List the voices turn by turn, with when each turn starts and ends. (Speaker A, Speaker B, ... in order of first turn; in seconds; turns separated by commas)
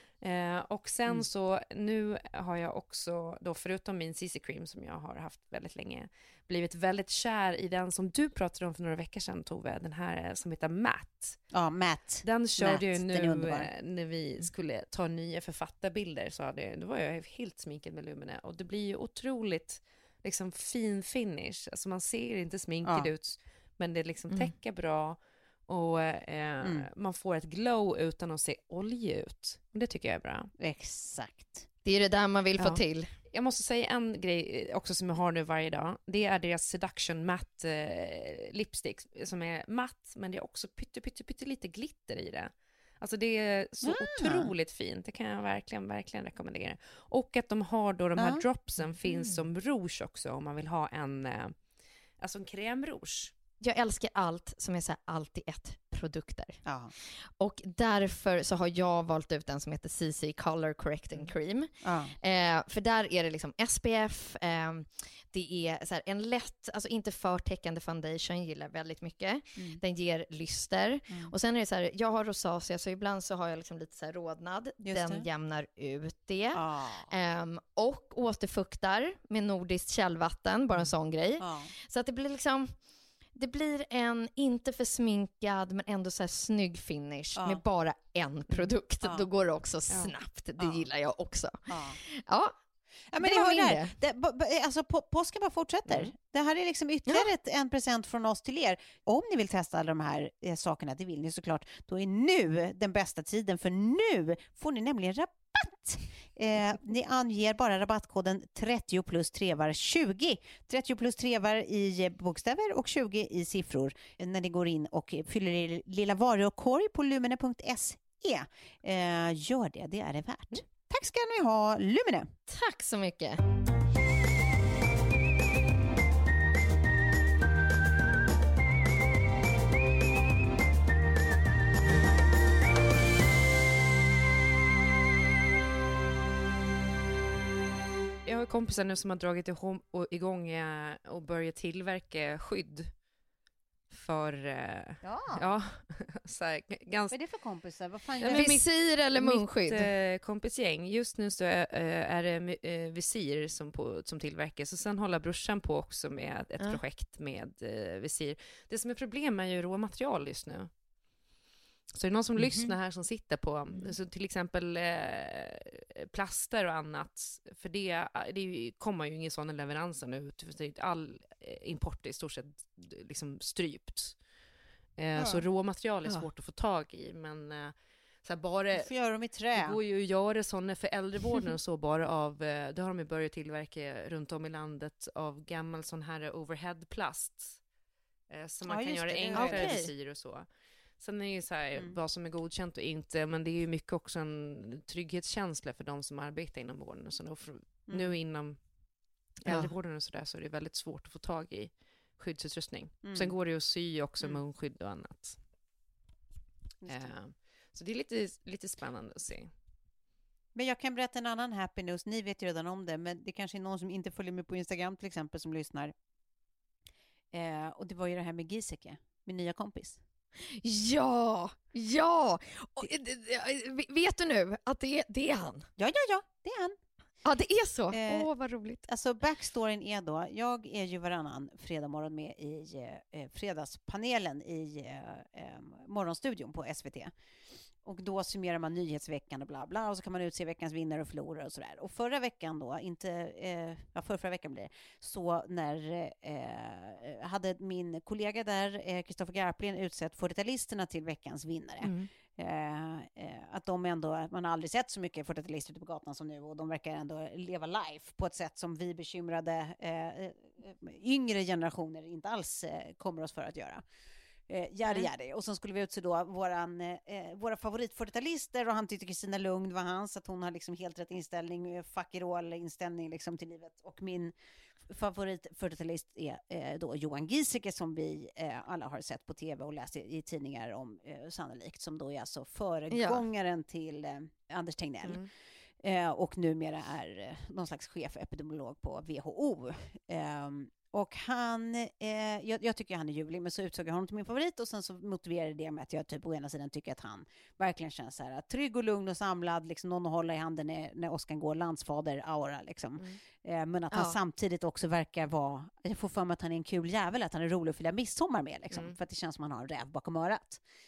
Speaker A: 0.2-11.4, Speaker B: 11.5-13.7, Speaker A: 12.2-30.5, Speaker B: 22.8-23.1, Speaker B: 26.6-26.9, Speaker B: 30.6-31.6, Speaker C: 31.8-33.1, Speaker A: 33.3-51.5, Speaker B: 43.8-44.5, Speaker B: 48.1-48.4, Speaker C: 49.1-49.4, Speaker A: 52.2-53.3, Speaker C: 53.6-56.6, Speaker B: 56.6-56.9, Speaker C: 57.3-61.7, Speaker B: 61.8-62.1, Speaker C: 62.2-82.7, Speaker B: 74.8-75.2, Speaker B: 76.5-77.1, Speaker B: 81.4-81.7, Speaker C: 83.3-92.5, Speaker B: 87.3-87.6, Speaker B: 90.6-90.8, Speaker B: 91.7-92.0, Speaker B: 93.1-122.3, Speaker C: 93.2-93.9, Speaker A: 95.9-96.1, Speaker C: 122.5-123.4, Speaker A: 138.2-142.9, Speaker A: 143.9-147.2, Speaker B: 145.0-145.5, Speaker B: 147.1-148.6, Speaker A: 148.2-160.7, Speaker C: 148.2-149.9, Speaker A: 161.9-174.2, Speaker B: 162.4-162.7, Speaker A: 175.0-178.9, Speaker B: 175.2-175.4, Speaker B: 178.7-179.8, Speaker A: 179.5-187.6, Speaker A: 188.3-190.4, Speaker B: 188.7-189.9, Speaker C: 189.3-189.9, Speaker A: 191.0-198.6, Speaker B: 197.9-198.1, Speaker A: 199.4-205.4, Speaker C: 199.4-199.7, Speaker B: 203.0-203.3, Speaker B: 206.8-207.1, Speaker A: 206.8-209.5, Speaker B: 210.5-215.9, Speaker B: 217.3-220.0, Speaker C: 220.5-225.7, Speaker B: 225.8-226.8, Speaker C: 227.2-228.8, Speaker B: 227.9-228.3, Speaker B: 228.8-237.1, Speaker B: 237.8-263.8, Speaker A: 251.8-252.1, Speaker B: 264.5-274.3, Speaker B: 274.9-285.2, Speaker C: 282.9-283.2, Speaker A: 285.0-285.3, Speaker B: 285.8-310.6, Speaker C: 303.9-304.2, Speaker A: 308.7-308.9